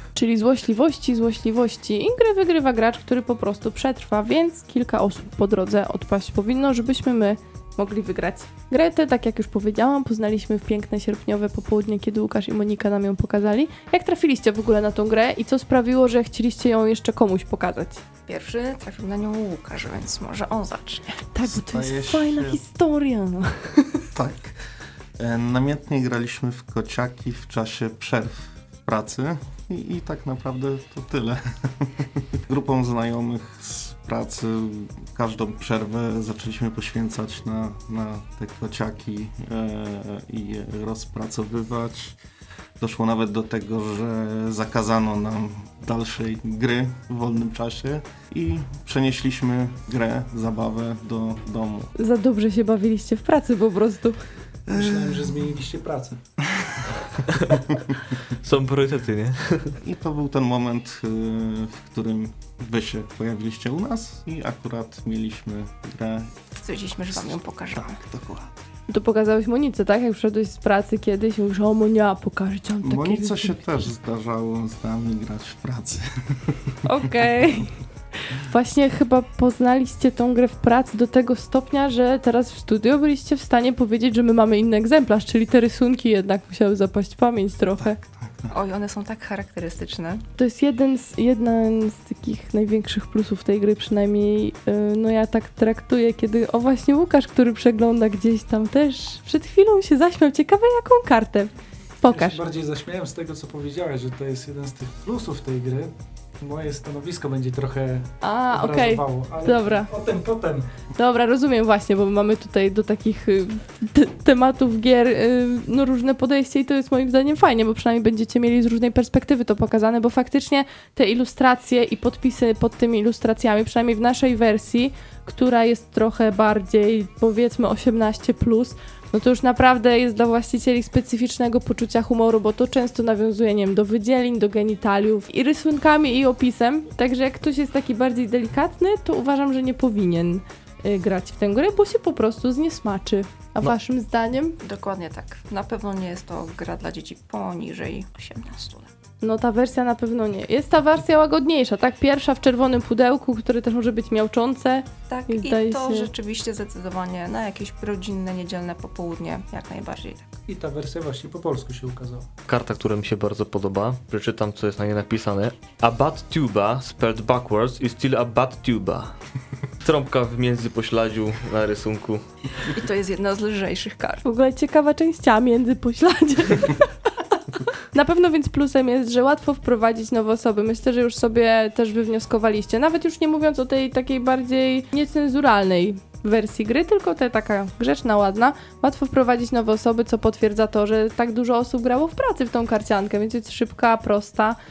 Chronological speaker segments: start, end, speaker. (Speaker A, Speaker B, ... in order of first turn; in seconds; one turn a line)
Speaker A: 0.1-18.0
Speaker B: 18.2-21.2
Speaker A: 21.3-24.0
Speaker C: 21.4-22.6
Speaker C: 24.1-24.6
Speaker C: 25.2-42.2
Speaker C: 42.8-51.9
Speaker A: 52.0-54.2
Speaker D: 54.7-56.2
Speaker C: 54.7-55.0
Speaker E: 57.3-57.6
Speaker E: 58.3-59.8
Speaker C: 59.8-66.4
Speaker B: 66.5-68.0
Speaker C: 67.1-68.6
Speaker A: 68.9-73.7
Speaker C: 72.8-76.8
Speaker A: 76.8-88.0
Speaker C: 87.9-88.5
Speaker B: 88.5-90.2
Speaker A: 90.4-102.4
Speaker D: 102.1-110.7
Speaker A: 108.2-109.9
Speaker A: 111.0-144.6
Speaker B: 144.6-148.9
Speaker A: 149.2-156.1
Speaker B: 155.1-160.3
Speaker D: 160.5-162.3
Speaker E: 162.5-169.2
Speaker E: 169.8-172.2
Speaker B: 172.6-174.2
Speaker A: 174.2-176.9
Speaker A: 177.9-194.6